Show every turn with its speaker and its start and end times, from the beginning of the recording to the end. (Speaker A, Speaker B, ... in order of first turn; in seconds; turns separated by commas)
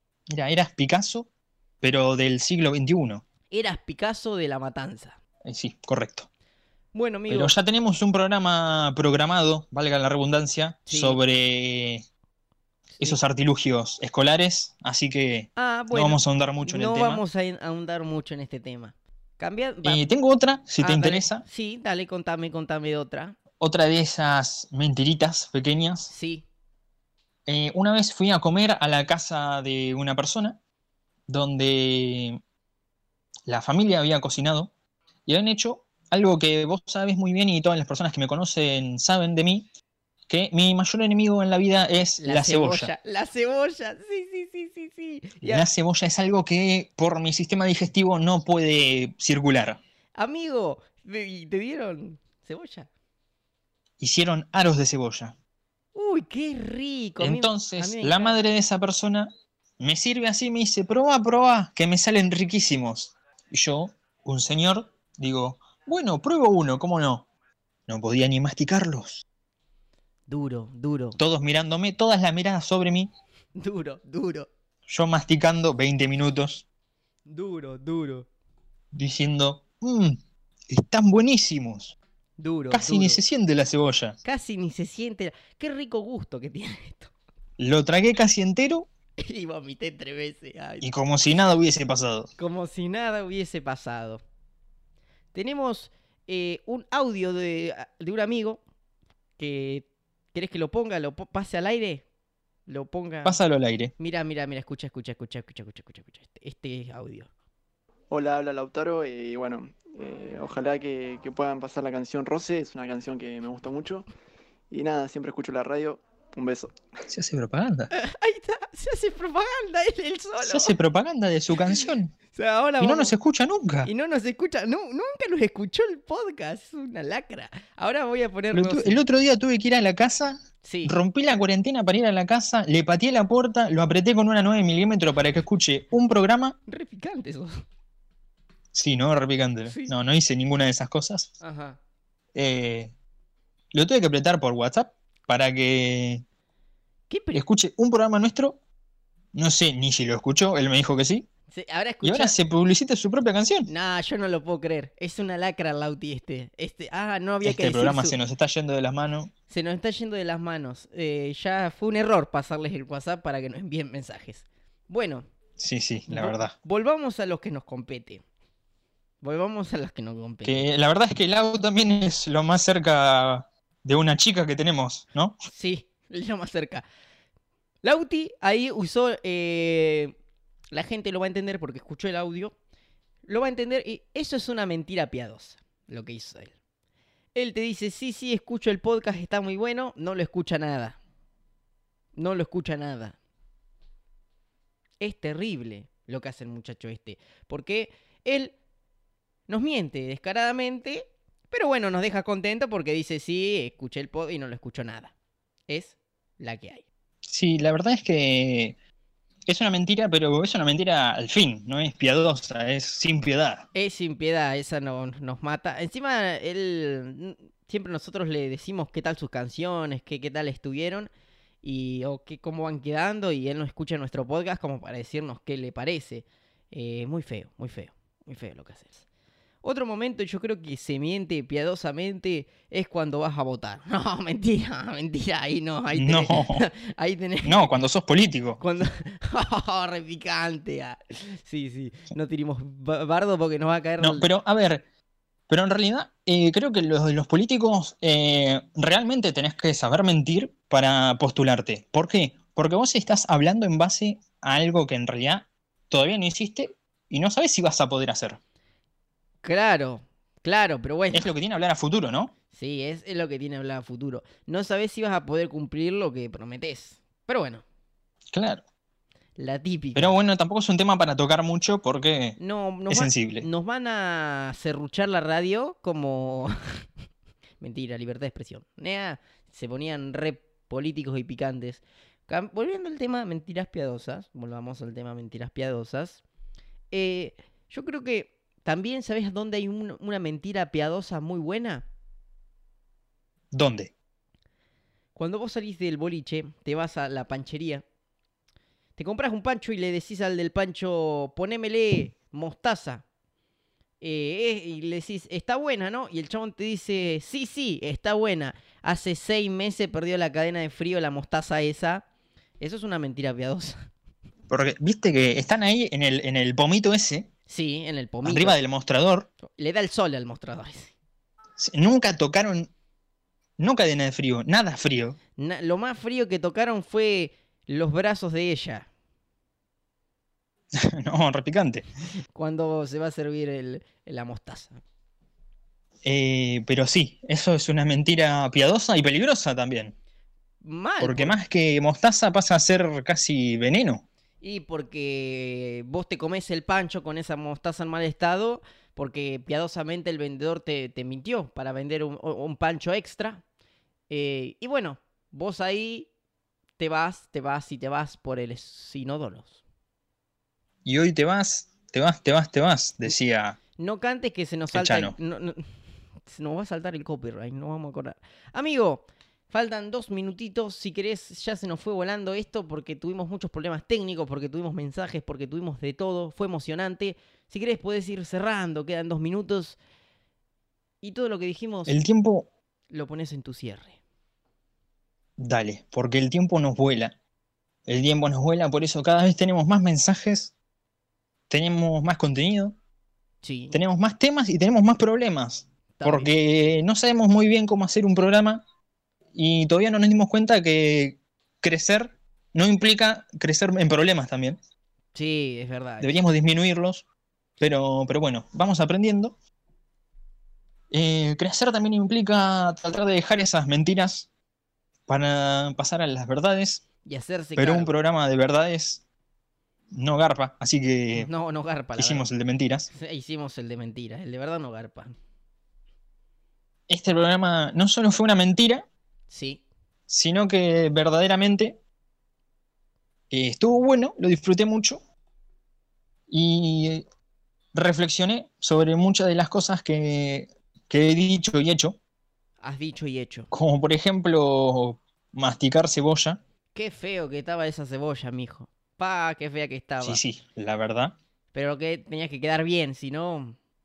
Speaker A: 0.3-1.3, Speaker A: 1.8-3.2, Speaker B: 3.5-5.2, Speaker A: 5.4-6.3, Speaker B: 6.9-7.5, Speaker A: 7.3-12.0, Speaker B: 10.9-11.2, Speaker B: 12.9-13.2, Speaker A: 13.0-17.2, Speaker B: 15.6-20.0, Speaker A: 19.8-21.4, Speaker B: 20.8-23.4, Speaker A: 23.6-26.1, Speaker B: 26.1-26.4, Speaker A: 27.4-30.6, Speaker A: 31.3-32.4, Speaker A: 33.5-34.7, Speaker A: 35.3-39.7, Speaker A: 40.3-42.9, Speaker B: 42.2-45.7, Speaker A: 45.4-49.8, Speaker B: 50.2-52.9, Speaker A: 54.0-55.3, Speaker B: 55.9-58.4, Speaker A: 57.2-67.2, Speaker A: 67.9-69.2, Speaker B: 70.3-71.2, Speaker A: 71.2-73.1, Speaker B: 73.6-74.5, Speaker A: 74.9-76.6, Speaker B: 77.3-78.3, Speaker A: 78.9-81.9, Speaker B: 82.4-83.2, Speaker A: 82.7-84.2, Speaker B: 84.2-87.1, Speaker A: 87.6-88.9, Speaker B: 89.2-90.9, Speaker A: 90.8-92.3, Speaker B: 92.4-94.2, Speaker B: 95.3-98.6, Speaker B: 99.4-102.0, Speaker B: 102.7-103.4, Speaker A: 103.2-103.9, Speaker B: 104.0-107.3, Speaker C: 108.1-114.1, Speaker C: 114.7-116.7, Speaker A: 117.1-117.9, Speaker B: 117.9-120.8, Speaker A: 120.4-122.1, Speaker B: 121.7-123.1, Speaker A: 122.8-123.9, Speaker B: 123.8-129.0, Speaker A: 128.5-136.6, Speaker B: 130.6-130.9, Speaker B: 136.7-137.6, Speaker A: 138.7-141.3, Speaker B: 139.7-139.9, Speaker B: 141.4-141.8, Speaker A: 142.3-142.9, Speaker A: 143.7-146.2, Speaker B: 147.1-147.4, Speaker A: 147.3-148.6, Speaker A: 149.3-151.3, Speaker B: 151.5-152.3, Speaker A: 152.0-153.7, Speaker B: 153.7-158.2, Speaker A: 157.4-159.3, Speaker B: 159.5-165.2, Speaker A: 165.6-166.5, Speaker B: 166.1-168.2, Speaker B: 169.2-170.7, Speaker A: 170.4-175.4, Speaker B: 175.5-176.8, Speaker B: 177.8-180.2, Speaker B: 180.7-182.5, Speaker B: 183.2-186.5, Speaker B: 187.3-191.0, Speaker B: 192.2-193.2, Speaker B: 195.0-198.5, Speaker B: 199.5-205.1, Speaker B: 205.7-206.8, Speaker A: 207.2-208.8, Speaker A: 209.4-213.7, Speaker B: 213.7-221.1, Speaker B: 221.6-229.0, Speaker B: 229.6-237.8, Speaker A: 235.9-236.6, Speaker A: 237.4-238.6, Speaker B: 238.6-244.3, Speaker A: 244.0-244.8, Speaker A: 245.5-258.4, Speaker B: 259.4-261.3, Speaker A: 261.1-262.3, Speaker B: 262.5-267.6, Speaker A: 268.3-268.6, Speaker B: 269.4-270.1, Speaker A: 269.9-272.4, Speaker B: 272.4-276.5, Speaker A: 272.9-273.5, Speaker B: 277.6-286.2, Speaker B: 286.9-291.9, Speaker A: 293.5-293.9, Speaker B: 295.1-297.8, Speaker B: 299.0-303.0, Speaker B: 304.0-312.0, Speaker B: 312.6-313.9, Speaker A: 314.5-317.3, Speaker B: 317.5-318.6, Speaker A: 318.2-319.3, Speaker B: 319.4-320.9, Speaker A: 321.6-322.7, Speaker A: 323.6-325.2, Speaker B: 325.4-328.9, Speaker A: 330.7-331.9, Speaker B: 332.3-334.8, Speaker A: 336.0-339.9, Speaker B: 340.6-341.4, Speaker A: 341.0-344.0, Speaker B: 344.4-353.4, Speaker B: 354.1-356.1, Speaker B: 356.8-359.6, Speaker A: 360.8-363.6, Speaker B: 363.8-365.7, Speaker A: 364.7-365.1, Speaker B: 366.3-379.8, Speaker B: 381.0-382.0, Speaker A: 381.9-382.5, Speaker B: 382.9-384.0, Speaker A: 385.4-387.1, Speaker A: 387.9-390.5, Speaker A: 391.5-392.8, Speaker B: 393.4-393.8, Speaker A: 393.7-398.6, Speaker B: 396.0-396.3, Speaker A: 399.3-404.6, Speaker B: 405.1-406.2, Speaker A: 406.0-407.0, Speaker A: 407.6-409.3, Speaker A: 410.9-414.3, Speaker A: 415.1-416.8, Speaker B: 417.1-417.9, Speaker A: 417.6-419.0, Speaker A: 419.9-421.3, Speaker B: 421.1-422.3, Speaker A: 421.9-422.9, Speaker B: 422.9-425.1, Speaker A: 426.9-428.9, Speaker B: 429.3-429.6, Speaker A: 430.1-431.8, Speaker A: 433.3-435.0, Speaker A: 436.3-437.0, Speaker A: 437.7-442.0, Speaker B: 442.6-443.5, Speaker A: 443.5-446.4, Speaker B: 446.7-450.2, Speaker A: 450.0-451.1, Speaker B: 451.5-453.6